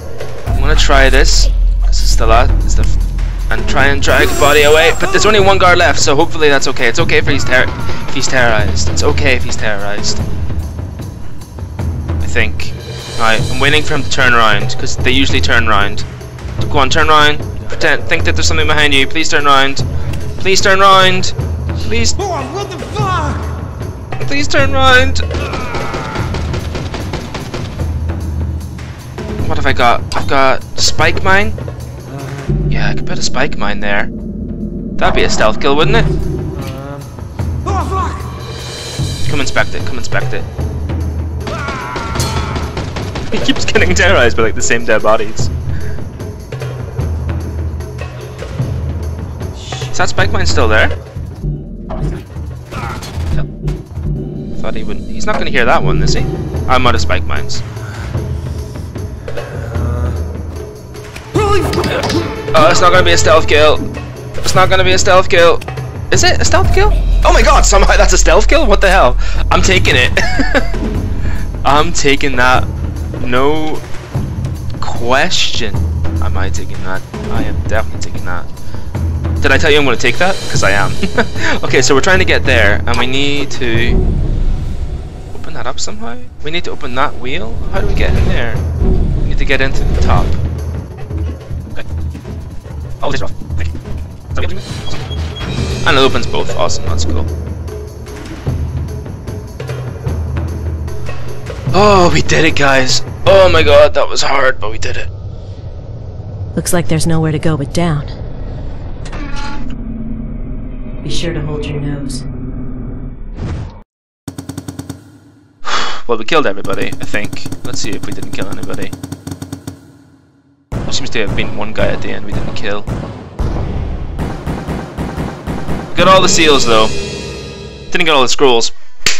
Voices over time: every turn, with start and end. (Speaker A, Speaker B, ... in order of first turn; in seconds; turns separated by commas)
Speaker A: 0.5-3.0, Speaker A: 3.5-10.2, Speaker A: 12.2-16.1, Speaker A: 16.6-19.8, Speaker A: 20.4-22.2, Speaker B: 22.2-23.6, Speaker A: 24.2-25.2, Speaker A: 29.4-31.6, Speaker B: 32.0-32.6, Speaker A: 32.7-34.1, Speaker A: 35.0-36.1, Speaker B: 36.5-37.1, Speaker B: 37.6-38.3, Speaker A: 39.2-40.5, Speaker A: 43.3-45.5, Speaker B: 49.5-49.9, Speaker A: 49.9-50.9, Speaker B: 52.0-52.2, Speaker A: 54.5-57.6, Speaker B: 59.3-60.2, Speaker B: 61.4-62.2, Speaker A: 62.5-63.9, Speaker A: 64.4-70.7, Speaker A: 71.6-72.7, Speaker A: 73.2-73.8, Speaker A: 74.8-78.5, Speaker A: 79.4-84.0, Speaker A: 85.3-88.6, Speaker A: 89.2-90.4, Speaker A: 93.0-93.7, Speaker A: 94.3-95.0, Speaker A: 95.8-97.3, Speaker A: 101.7-105.1, Speaker C: 106.5-108.1, Speaker C: 111.0-112.2, Speaker A: 115.6-118.9, Speaker A: 120.8-122.9, Speaker A: 125.9-126.9, Speaker A: 127.9-128.7